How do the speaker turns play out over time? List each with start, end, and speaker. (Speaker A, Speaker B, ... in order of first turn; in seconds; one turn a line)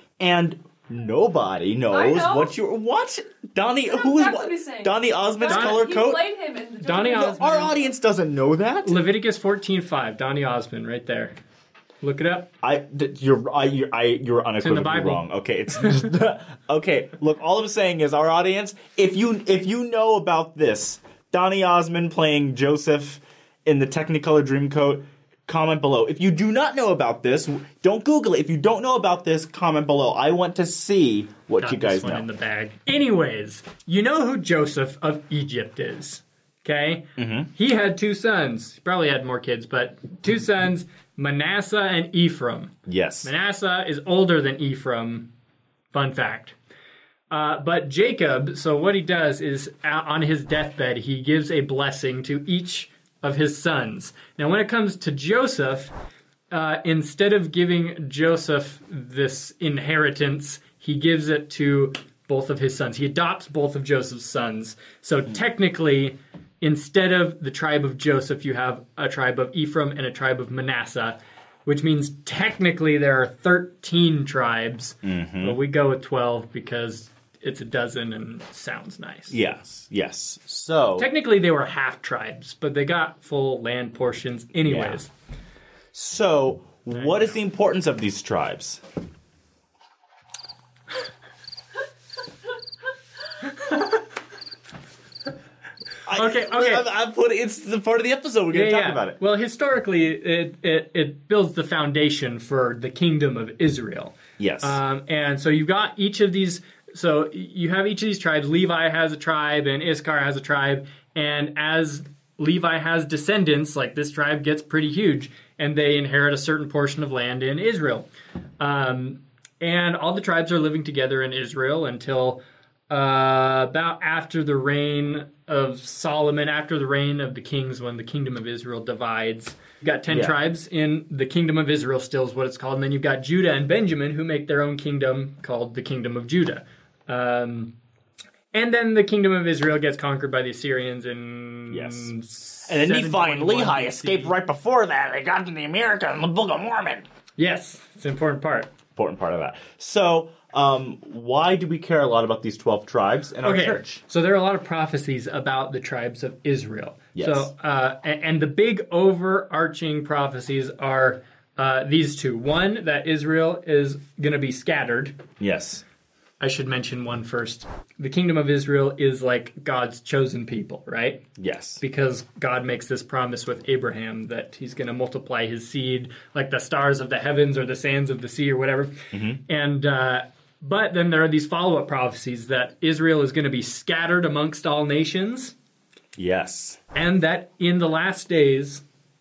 Speaker A: 0.2-6.3
Speaker B: 1.9-2.5
Speaker B: 3.8-7.8
Speaker C: 5.5-5.8
Speaker C: 6.8-7.4
Speaker A: 7.1-9.0
Speaker C: 8.8-11.3
Speaker C: 12.0-12.5
Speaker A: 12.6-32.3
Speaker C: 14.6-15.2
Speaker C: 31.6-45.3
Speaker A: 37.2-37.5
Speaker A: 42.9-43.3
Speaker C: 45.9-46.5
Speaker C: 47.3-55.9
Speaker C: 56.5-79.4
Speaker A: 75.0-75.6
Speaker A: 79.3-81.1
Speaker C: 81.0-85.1
Speaker A: 84.6-85.0
Speaker A: 85.9-88.8
Speaker C: 86.9-87.3
Speaker C: 93.6-94.0
Speaker A: 96.1-99.2
Speaker C: 96.1-96.9
Speaker C: 98.5-118.1
Speaker A: 104.4-104.8
Speaker C: 118.6-137.7
Speaker A: 130.1-130.4
Speaker C: 138.5-144.3
Speaker A: 141.7-147.1
Speaker C: 147.4-148.7
Speaker A: 148.9-154.0
Speaker C: 153.4-165.2
Speaker A: 157.1-157.5
Speaker A: 165.4-165.8
Speaker C: 166.4-171.2
Speaker A: 171.4-171.8
Speaker C: 171.8-178.9
Speaker A: 179.1-179.4
Speaker C: 179.5-185.5
Speaker A: 186.2-186.8
Speaker C: 186.9-188.8